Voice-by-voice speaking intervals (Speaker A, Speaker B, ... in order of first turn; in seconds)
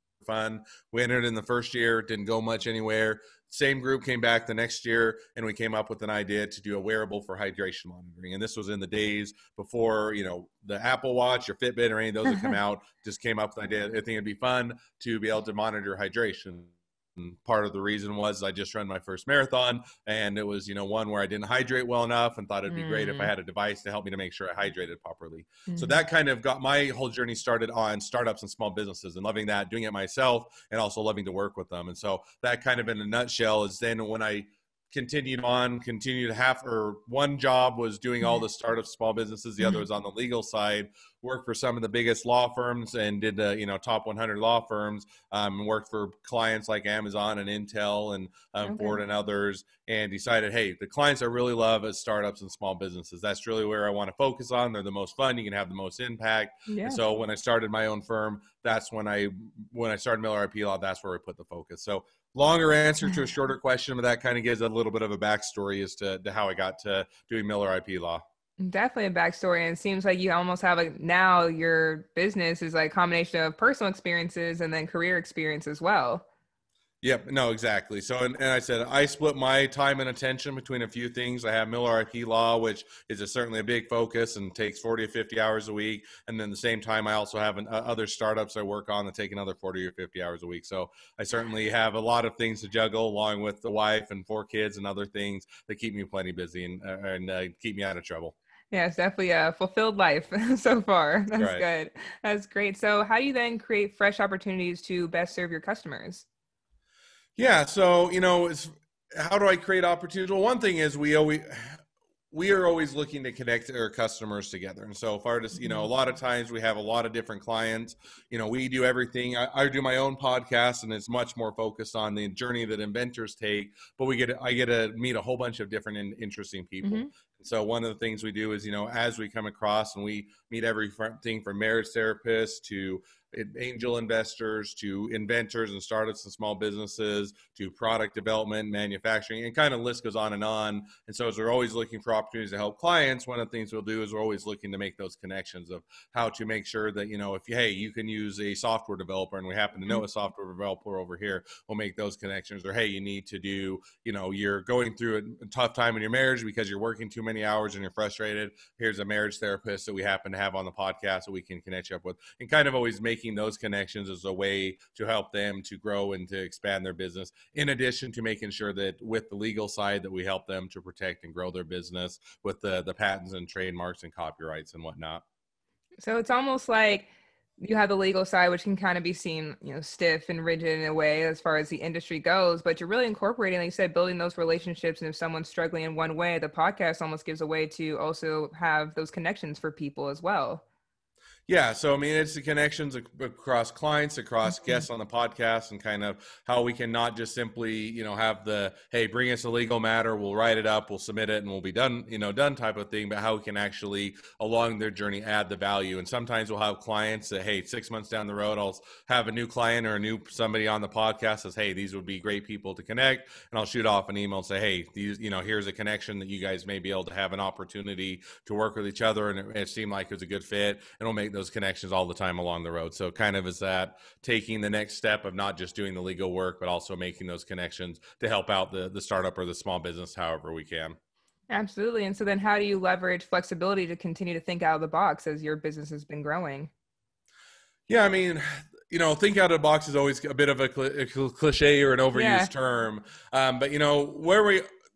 Speaker A: 0.2-68.2, 77.0-98.3, 101.4-101.6, 107.4-111.8, 112.3-175.2, 191.5-231.0, 237.9-244.6
Speaker B: 22.7-23.3, 25.7-26.0, 48.6-49.0, 56.7-57.0, 68.6-76.2, 98.7-106.2, 115.5-115.9, 126.8-127.1, 176.0-177.1, 177.6-190.6, 194.5-194.8, 231.5-236.7, 242.1-242.5